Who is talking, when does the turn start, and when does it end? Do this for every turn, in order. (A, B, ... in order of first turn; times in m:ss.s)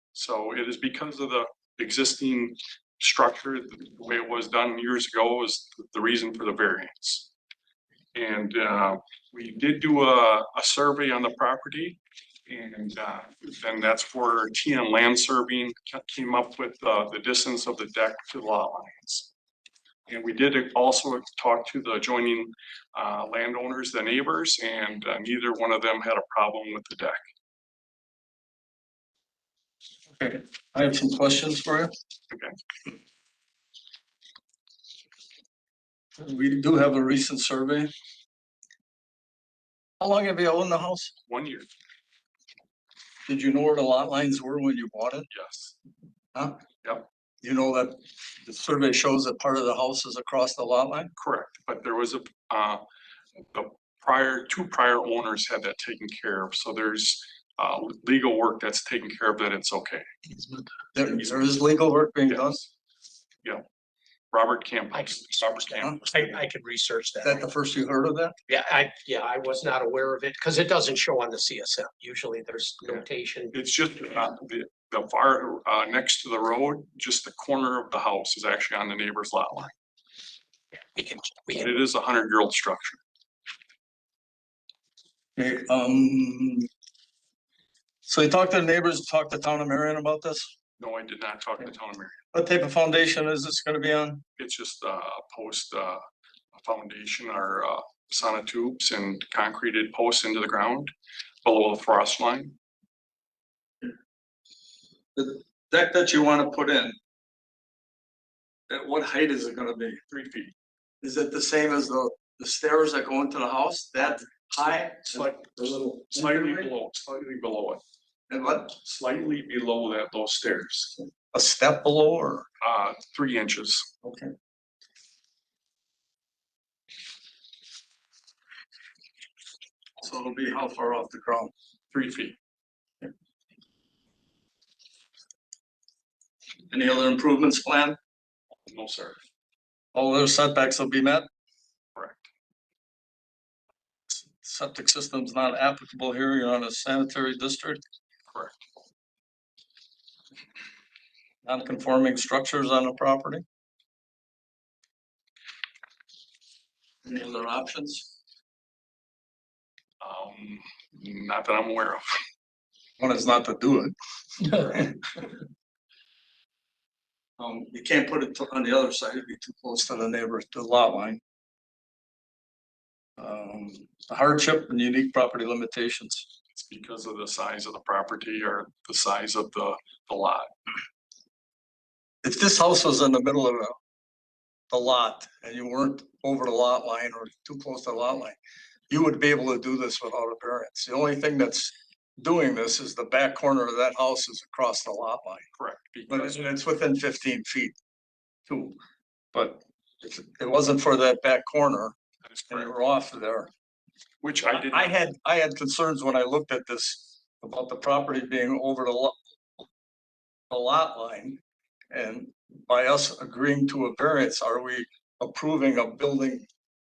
0:00.1-0:07.3 A
0:08.1-0:19.3 A
0:20.1-0:27.2 A
0:30.2-0:31.9 B
0:32.3-0:32.5 A
0:36.2-0:37.9 B
0:40.0-0:41.1 B
0:41.3-0:41.7 A
0:43.3-0:45.3 B
0:45.3-0:45.7 A
0:46.3-0:46.6 B
0:47.4-0:51.1 B
0:51.2-0:52.8 A
0:53.5-1:00.0 A
1:00.9-1:02.6 B
1:02.3-1:02.6 A
1:04.3-1:06.4 A
1:04.9-1:07.5 C
1:07.2-1:08.3 B
1:08.5-1:13.5 C
1:13.5-1:19.7 A
1:20.9-1:21.7 C
1:21.5-1:23.0 A
1:25.4-1:26.7 B
1:28.0-1:30.5 B
1:30.8-1:32.2 A
1:32.3-1:34.2 B
1:34.4-1:40.9 A
1:41.4-1:42.5 A
1:45.1-1:47.0 B
1:48.7-1:50.0 B
1:50.1-1:50.5 A
1:51.0-1:56.7 B
1:55.1-1:57.8 A
1:58.3-1:58.7 B
1:58.8-2:01.0 A
2:01.3-2:02.4 B
2:02.6-2:03.9 A
2:04.0-2:04.3 B
2:10.0-2:11.5 B
2:11.9-2:12.4 A
2:16.7-2:18.0 B
2:18.6-2:19.2 A
2:19.9-2:21.2 B
2:22.0-2:22.3 A
2:24.1-2:27.8 B
2:28.3-2:28.6 A
2:31.4-2:33.4 B
2:37.0-2:38.1 B
2:40.0-2:42.2 A
2:43.0-2:45.3 B
2:47.4-2:51.2 B
2:53.2-2:56.2 B
2:56.5-3:00.5 A
3:02.2-3:03.8 B
3:04.7-3:08.4 B
3:08.9-3:15.4 B
3:15.6-3:16.4 A
3:16.1-3:17.7 B
3:18.5-3:18.8 B
3:19.3-3:22.0 B
3:22.2-3:22.7 A
3:22.5-3:23.5 B
3:24.2-3:25.0 A
3:24.4-3:29.2 B
3:30.5-3:36.4 B